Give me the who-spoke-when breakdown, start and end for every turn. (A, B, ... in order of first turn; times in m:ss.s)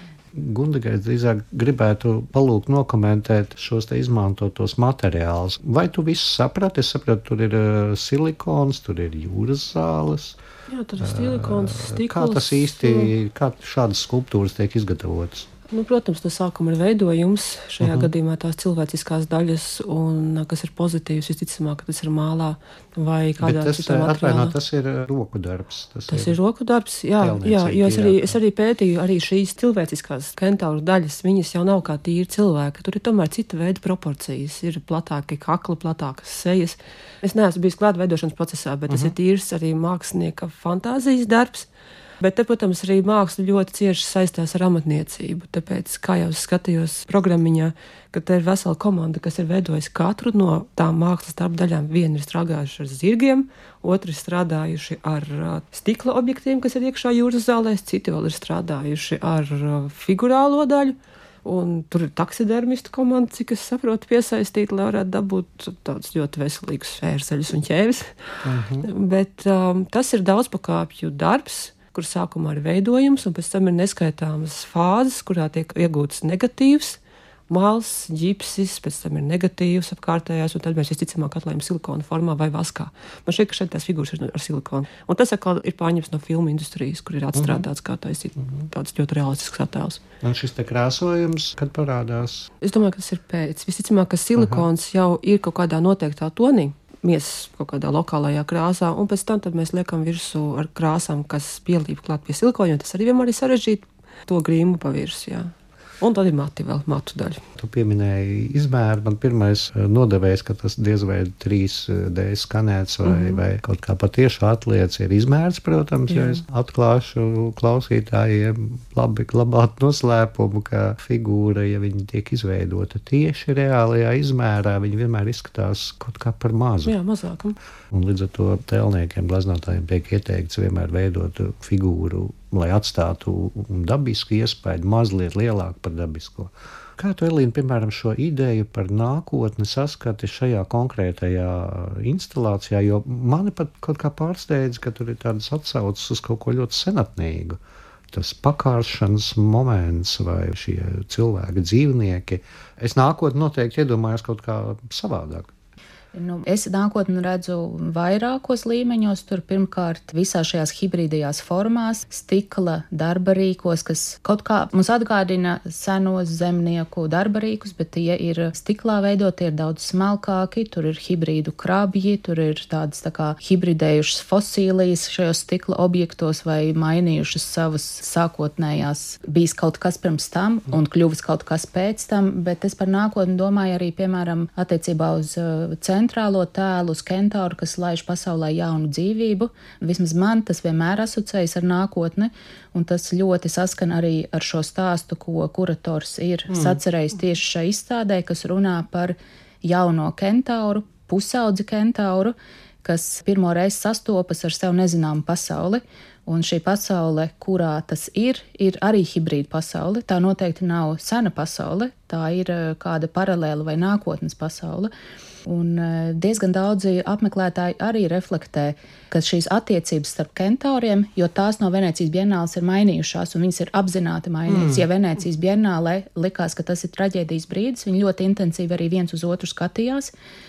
0:00.3-0:10.4 A
0:10.7-0:13.1 B
0:11.0-0:15.5 A
0:15.7-0:24.5 B
0:17.8-0:18.1 A
0:23.4-0:26.4 A
0:26.1-0:41.7 B
0:27.2-0:28.4 A
0:38.9-0:39.1 A
0:42.2-1:08.1 B
1:08.4-1:08.9 A
1:08.8-1:30.0 B
1:27.3-1:27.6 A
1:30.2-1:32.5 A
1:32.6-1:47.4 B
1:34.4-1:34.6 A
1:47.6-2:06.9 A
1:53.1-1:53.4 B
1:56.1-1:56.4 B
2:06.8-2:07.6 B
2:07.9-2:27.6 A
2:28.1-2:35.5 A
2:36.1-3:34.9 C
3:16.5-3:16.8 A
3:35.4-3:50.1 C
3:44.5-3:44.8 A